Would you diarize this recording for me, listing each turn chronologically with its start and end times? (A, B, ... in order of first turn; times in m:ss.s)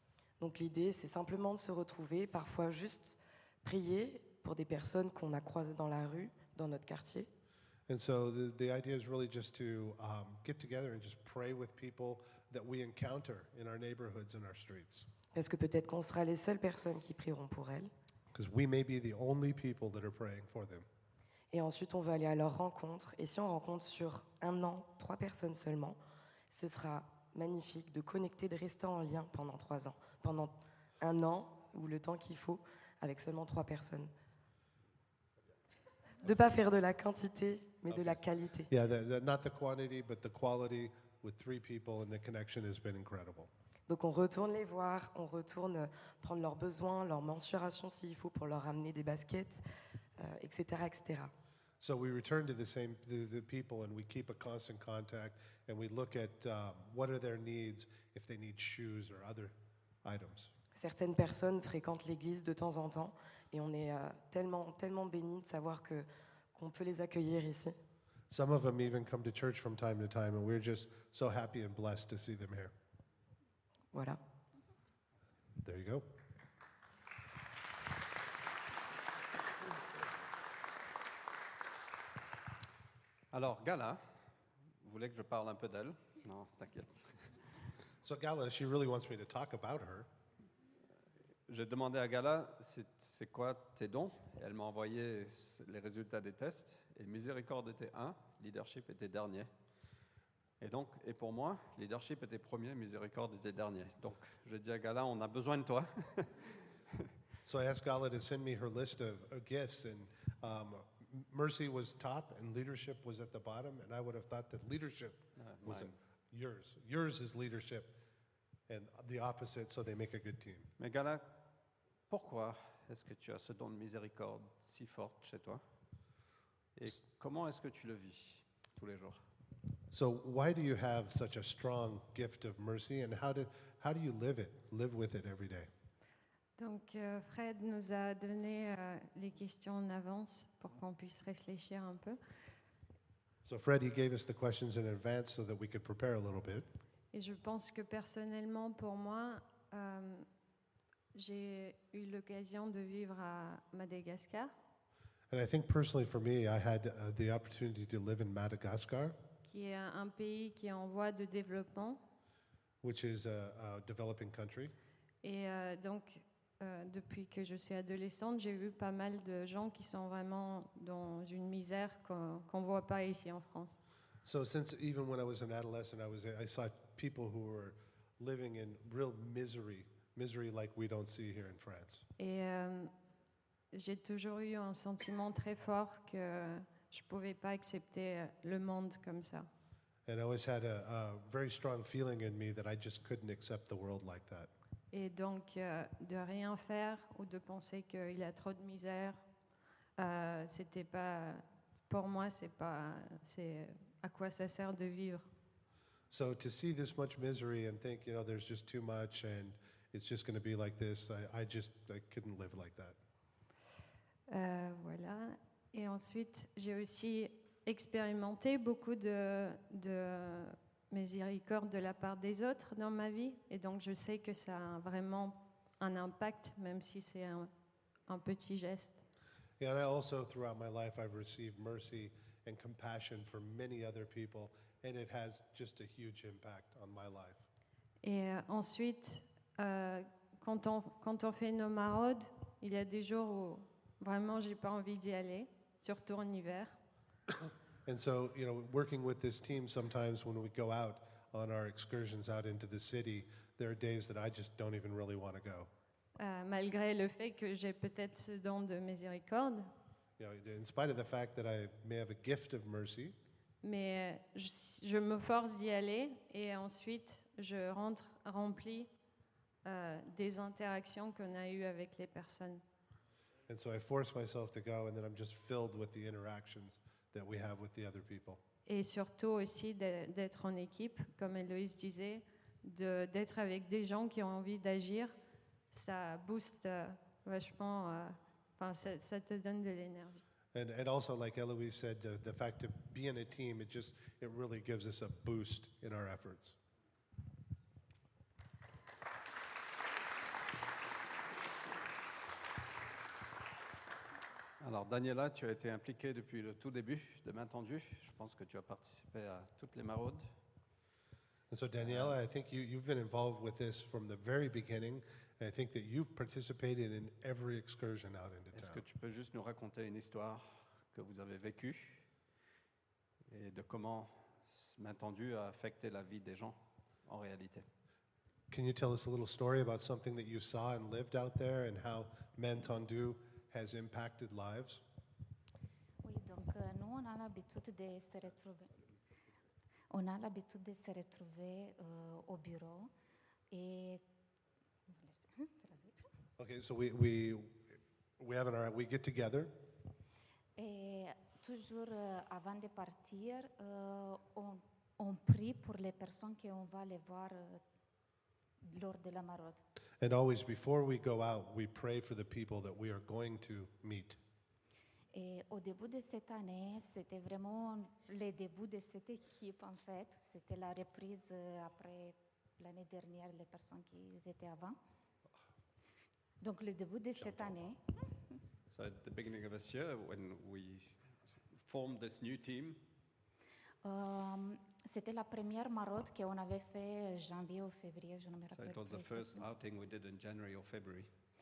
0:00.4-0:07.3 A
0:07.9-0:15.1 B
0:15.3-0:17.9 A
0:18.3-0:20.8 B
0:21.5-0:26.0 A
0:26.5-0:34.1 A
0:36.2-0:38.7 A
0:38.7-0:43.5 B
0:43.9-0:49.6 A
0:50.2-0:51.3 A
0:51.8-1:00.5 B
1:00.7-1:07.8 A
1:08.3-1:12.7 B
1:13.9-1:14.2 A
1:15.6-1:16.1 B
1:23.3-1:24.0 C
1:24.8-1:27.1 C
1:28.0-1:30.1 B
1:31.5-1:39.5 C
1:40.6-1:46.4 C
1:47.4-1:58.0 B
1:55.4-1:56.0 C
1:58.7-2:00.7 B
2:00.8-2:01.4 C
2:02.1-2:05.6 C
2:06.8-2:09.2 C
2:09.9-2:15.7 B
2:16.6-2:22.2 D
2:23.4-2:26.7 B
2:27.1-2:30.2 D
2:31.1-2:34.5 D
2:35.3-2:39.2 B
2:39.4-2:42.0 D
2:42.8-2:44.7 B
2:45.2-2:53.8 D
2:54.2-3:02.1 B
3:02.2-3:02.9 D
3:03.7-3:09.5 D
3:10.0-3:14.5 B
3:14.9-3:19.2 D
3:20.0-3:25.3 D
3:26.1-3:33.0 B
3:34.3-3:47.5 D
3:48.1-3:49.0 D
3:49.6-3:57.4 B
3:58.0-4:06.8 D
4:07.4-4:15.7 B
4:16.2-4:19.7 D
4:20.2-4:23.2 B
4:23.6-4:28.9 D
4:29.6-4:32.6 D
4:33.5-4:38.4 B
4:38.6-4:45.1 D
4:45.7-4:50.2 D
4:50.5-4:56.6 B
5:04.6-5:10.2 C
5:11.5-5:18.8 B
5:11.8-5:12.2 C
5:18.5-5:22.0 C
5:23.3-5:27.6 C
5:28.5-5:34.8 B
5:36.0-5:38.7 E
5:39.9-5:42.9 E
5:43.5-5:44.0 E
5:44.9-5:46.0 E
5:46.4-5:49.5 B
5:50.6-5:57.6 E
5:58.6-5:59.6 E
6:00.0-6:04.2 B
6:05.1-6:14.8 E
6:16.4-6:17.8 E
6:17.2-6:17.5 C
6:18.7-6:21.0 C
6:21.5-6:22.8 C
6:23.8-6:29.4 E
6:28.5-6:31.1 C